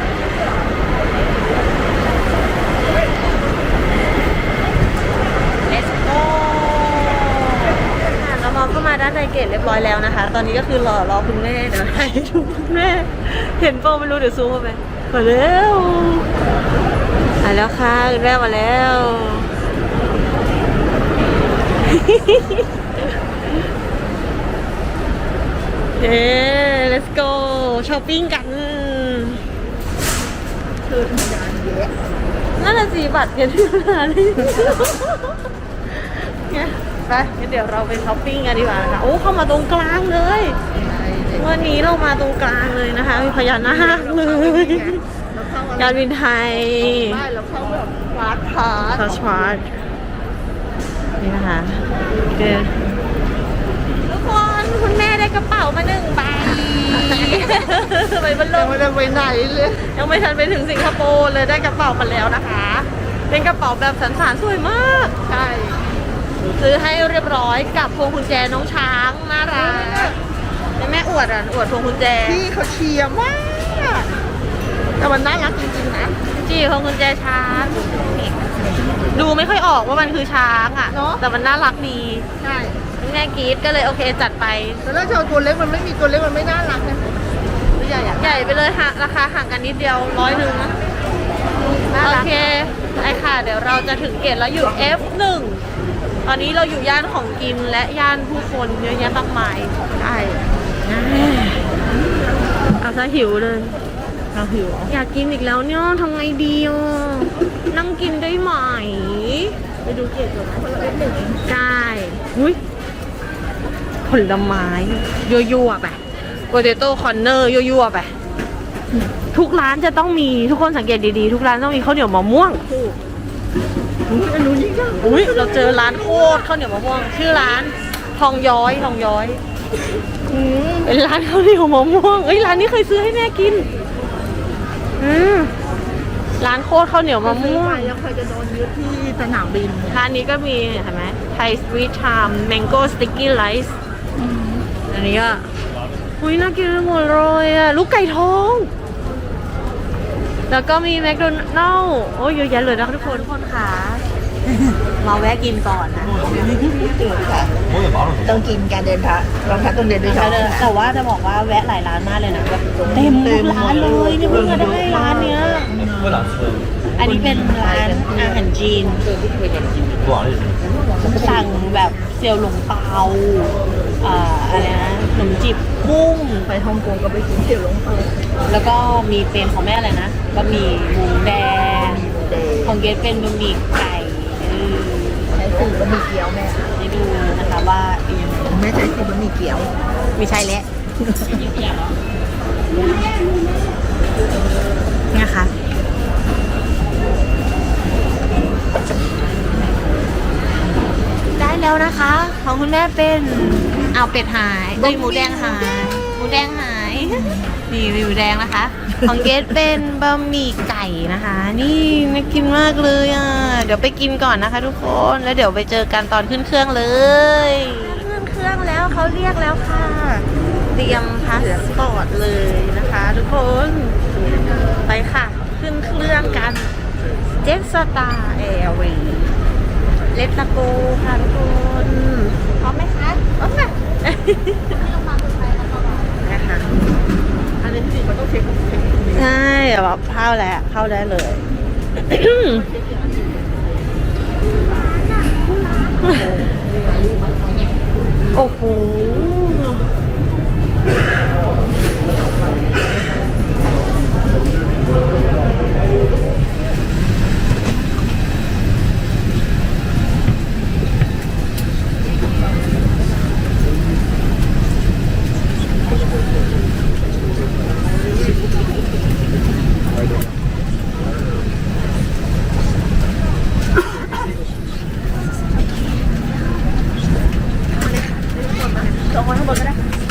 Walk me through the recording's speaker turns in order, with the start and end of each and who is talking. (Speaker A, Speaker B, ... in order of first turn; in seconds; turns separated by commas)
Speaker A: 5.7-16.3, Speaker A: 17.4-19.5, Speaker A: 21.9-22.6, Speaker A: 25.9-29.4, Speaker B: 30.8-31.9, Speaker A: 32.6-35.3, Speaker A: 36.0-40.6, Speaker B: 40.7-41.6, Speaker A: 41.3-45.0, Speaker B: 43.6-49.5, Speaker A: 45.8-47.2, Speaker A: 48.9-49.7, Speaker A: 51.2-52.8, Speaker A: 54.0-58.9, Speaker B: 56.9-57.5, Speaker B: 58.5-59.9, Speaker A: 59.9-65.2, Speaker B: 65.2-65.8, Speaker A: 66.4-70.2, Speaker B: 69.5-70.2, Speaker A: 70.8-72.4, Speaker B: 72.2-74.2, Speaker B: 75.0-76.2, Speaker A: 76.3-78.2, Speaker B: 78.2-78.9, Speaker A: 79.1-82.2, Speaker B: 80.9-81.2, Speaker B: 82.4-82.8, Speaker A: 83.0-84.8, Speaker B: 84.8-87.2, Speaker B: 87.7-88.3, Speaker A: 88.2-90.7, Speaker B: 91.9-92.2, Speaker A: 92.0-95.6, Speaker A: 96.2-99.8, Speaker B: 99.9-100.5, Speaker A: 100.8-101.6, Speaker A: 102.8-103.8, Speaker B: 104.3-104.9, Speaker A: 104.9-109.7, Speaker B: 109.8-111.4, Speaker A: 111.4-112.6, Speaker A: 114.0-116.0, Speaker A: 116.5-118.1, Speaker A: 119.3-122.6, Speaker B: 122.7-123.0, Speaker B: 124.0-126.0, Speaker A: 125.0-129.4, Speaker B: 130.3-130.9, Speaker A: 130.8-133.7, Speaker A: 135.0-135.5, Speaker A: 136.4-137.9, Speaker B: 137.2-140.0, Speaker A: 139.9-143.8, Speaker B: 144.2-144.7, Speaker A: 144.9-145.4, Speaker A: 146.2-148.7, Speaker A: 150.5-154.0, Speaker A: 155.0-156.8, Speaker B: 156.9-160.7, Speaker A: 160.1-165.7, Speaker B: 162.7-166.4, Speaker B: 167.0-168.2, Speaker A: 167.0-169.1, Speaker B: 170.9-171.4, Speaker A: 171.0-176.1, Speaker B: 175.8-178.2, Speaker A: 178.5-182.0, Speaker B: 181.9-182.8, Speaker A: 182.6-185.3, Speaker B: 185.3-186.7, Speaker A: 186.8-188.6, Speaker B: 188.5-189.7, Speaker A: 190.2-190.7, Speaker B: 191.0-191.4, Speaker A: 195.1-195.5, Speaker A: 201.3-224.0, Speaker B: 204.8-205.6, Speaker B: 207.2-207.5, Speaker A: 224.8-226.7, Speaker A: 227.4-229.3, Speaker A: 230.1-233.4, Speaker A: 234.0-234.9, Speaker A: 236.2-236.7, Speaker B: 237.6-239.3, Speaker A: 239.1-241.4, Speaker A: 242.1-242.7, Speaker B: 242.7-243.4, Speaker A: 246.0-246.3, Speaker A: 248.3-249.9, Speaker B: 277.7-279.8, Speaker A: 279.1-279.5